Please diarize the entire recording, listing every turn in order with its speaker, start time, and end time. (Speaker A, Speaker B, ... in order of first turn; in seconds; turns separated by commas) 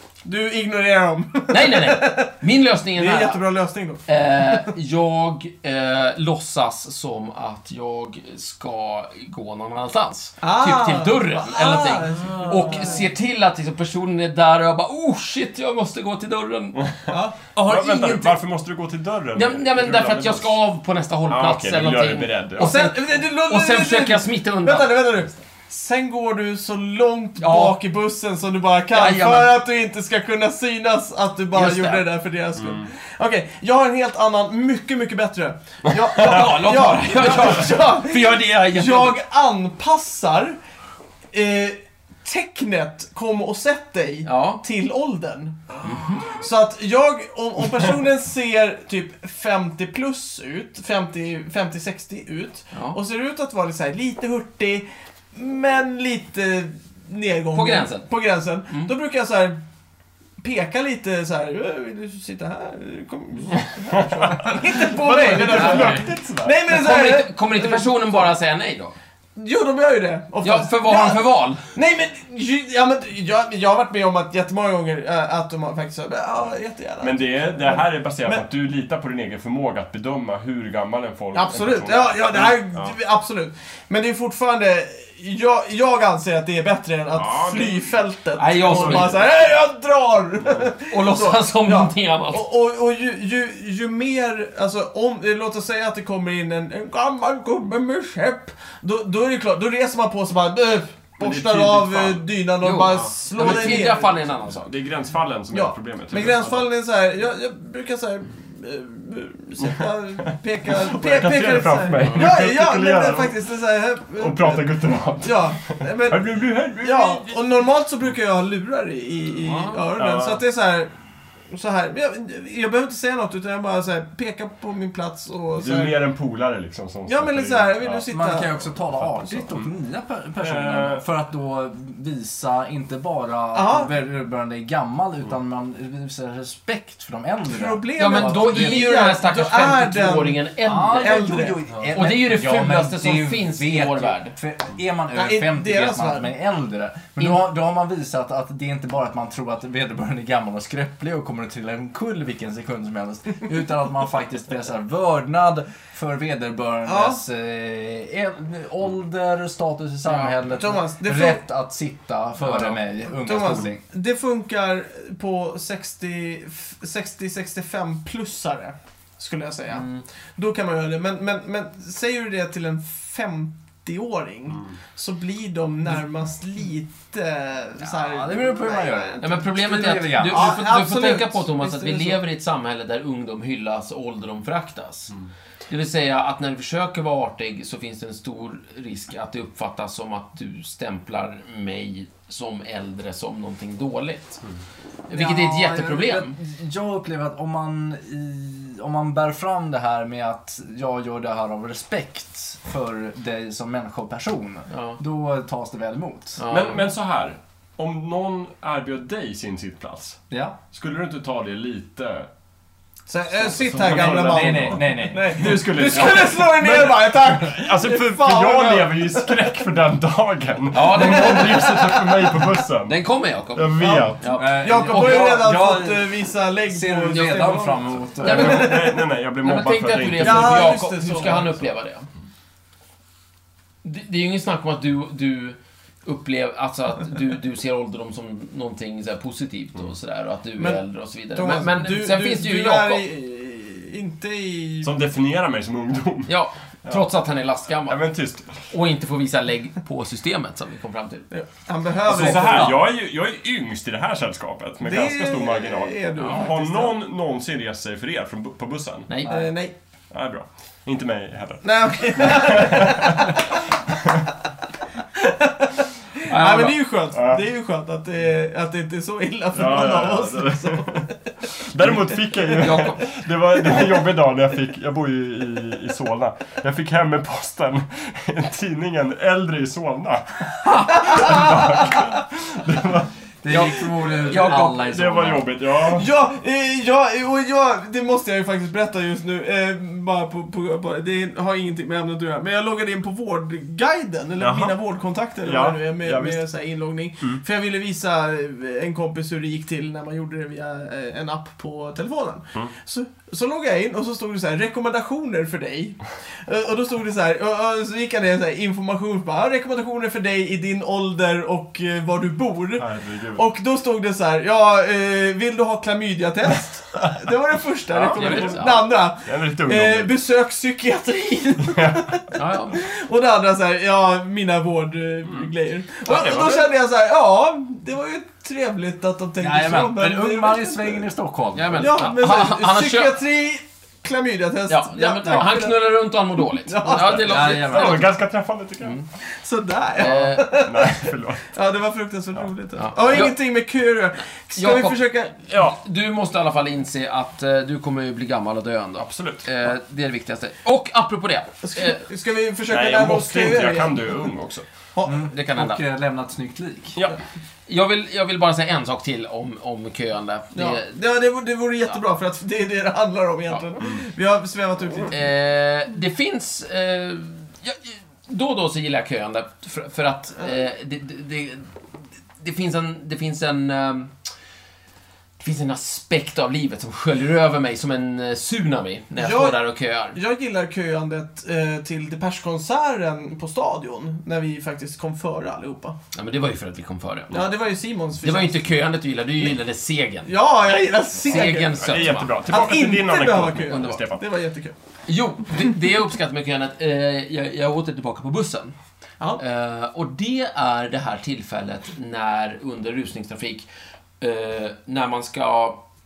Speaker A: 0.2-2.4, Speaker B: 1.5-3.4, Speaker A: 3.0-4.7, Speaker B: 4.1-16.9, Speaker A: 10.4-13.1, Speaker C: 16.8-20.6, Speaker A: 17.1-17.4, Speaker B: 17.5-18.4, Speaker B: 19.4-25.1, Speaker C: 21.3-22.8, Speaker A: 22.6-40.6, Speaker B: 27.4-27.8, Speaker B: 28.9-29.6, Speaker B: 31.5-32.1, Speaker C: 32.6-32.9, Speaker B: 36.1-39.2, Speaker A: 41.3-59.6, Speaker B: 44.2-44.6, Speaker B: 45.8-46.3, Speaker B: 52.7-53.0, Speaker B: 57.5-58.1, Speaker A: 60.4-68.3, Speaker C: 64.0-66.6, Speaker B: 65.3-66.1, Speaker B: 66.7-69.0, Speaker A: 69.4-71.2, Speaker B: 70.4-71.6, Speaker A: 71.7-78.4, Speaker C: 77.0-83.0, Speaker A: 81.3-104.2, Speaker C: 87.1-88.0, Speaker B: 88.4-89.2, Speaker C: 88.6-89.2, Speaker B: 90.9-92.5, Speaker C: 101.2-102.3, Speaker B: 102.6-104.7, Speaker C: 102.8-106.7, Speaker A: 105.5-116.2, Speaker C: 110.7-113.4, Speaker B: 112.0-112.3, Speaker C: 114.2-117.3, Speaker A: 116.8-120.9, Speaker B: 119.4-119.9, Speaker C: 120.0-120.4, Speaker A: 121.5-126.0, Speaker C: 125.5-128.1, Speaker A: 127.1-128.7, Speaker D: 128.1-139.0, Speaker C: 129.0-129.7, Speaker C: 130.4-131.0, Speaker A: 133.5-133.9, Speaker A: 137.5-141.7, Speaker B: 138.0-144.4, Speaker D: 140.7-163.8, Speaker A: 145.1-146.3, Speaker A: 156.8-157.2, Speaker B: 160.1-160.4, Speaker A: 160.5-161.4, Speaker A: 163.2-179.4, Speaker B: 169.7-170.0, Speaker D: 177.8-180.6, Speaker B: 179.2-185.1, Speaker A: 180.2-182.2, Speaker B: 185.7-194.4, Speaker B: 195.1-196.3, Speaker D: 195.1-206.4, Speaker B: 204.7-205.0, Speaker B: 206.4-206.8, Speaker C: 206.5-210.2, Speaker D: 210.3-210.6, Speaker C: 210.7-212.3, Speaker A: 213.1-219.4, Speaker C: 213.3-223.0, Speaker D: 213.8-215.6, Speaker B: 220.7-221.8, Speaker A: 220.9-222.5, Speaker B: 222.9-225.5, Speaker C: 223.5-224.3, Speaker A: 223.8-229.0, Speaker D: 224.4-228.7, Speaker C: 228.2-230.8, Speaker B: 228.2-232.1, Speaker A: 230.2-231.5, Speaker B: 233.8-243.1, Speaker A: 240.6-245.0, Speaker C: 244.8-246.3, Speaker B: 246.3-248.0, Speaker C: 247.8-248.7, Speaker B: 248.7-251.3, Speaker A: 251.3-252.8, Speaker C: 252.1-259.1, Speaker D: 252.1-252.8, Speaker A: 254.8-257.0, Speaker B: 259.1-259.4, Speaker A: 259.3-259.7, Speaker C: 260.1-263.4, Speaker A: 261.6-263.4, Speaker A: 265.2-265.7, Speaker A: 266.2-271.1, Speaker B: 266.3-266.8, Speaker C: 267.1-267.4, Speaker C: 269.5-283.1, Speaker A: 272.5-272.7, Speaker B: 272.6-273.0, Speaker A: 273.7-274.0, Speaker A: 281.0-282.1, Speaker D: 283.4-285.5, Speaker B: 283.5-284.9, Speaker C: 284.4-286.1, Speaker A: 285.9-331.1, Speaker C: 294.4-294.8, Speaker C: 295.4-296.4, Speaker C: 312.8-313.4, Speaker C: 317.9-320.1, Speaker B: 318.0-318.9, Speaker C: 321.7-322.2, Speaker B: 322.3-322.8, Speaker C: 325.2-325.5, Speaker C: 326.0-326.7, Speaker D: 329.4-332.1, Speaker B: 331.5-333.1, Speaker A: 331.8-337.6, Speaker B: 334.7-338.1, Speaker D: 337.1-338.1, Speaker C: 337.3-339.0, Speaker B: 338.8-339.1, Speaker A: 339.4-345.4, Speaker B: 340.0-340.6, Speaker C: 340.1-341.5, Speaker B: 342.8-343.4, Speaker B: 344.6-352.0, Speaker C: 345.5-345.8, Speaker C: 349.0-349.5, Speaker A: 351.6-354.1, Speaker C: 352.7-354.7, Speaker A: 354.9-355.2, Speaker D: 355.1-357.0, Speaker B: 355.2-355.8, Speaker B: 357.7-360.9, Speaker A: 360.5-365.2, Speaker B: 365.1-371.7, Speaker B: 372.4-374.1, Speaker B: 375.4-380.2, Speaker A: 379.2-379.6, Speaker A: 380.1-386.0, Speaker B: 386.1-387.5, Speaker A: 387.3-388.6, Speaker B: 388.2-390.3, Speaker A: 390.3-391.9, Speaker B: 391.2-392.4, Speaker C: 391.3-394.2, Speaker A: 392.5-394.8, Speaker B: 393.7-394.0, Speaker B: 395.1-398.8, Speaker B: 399.4-403.7, Speaker B: 404.2-405.9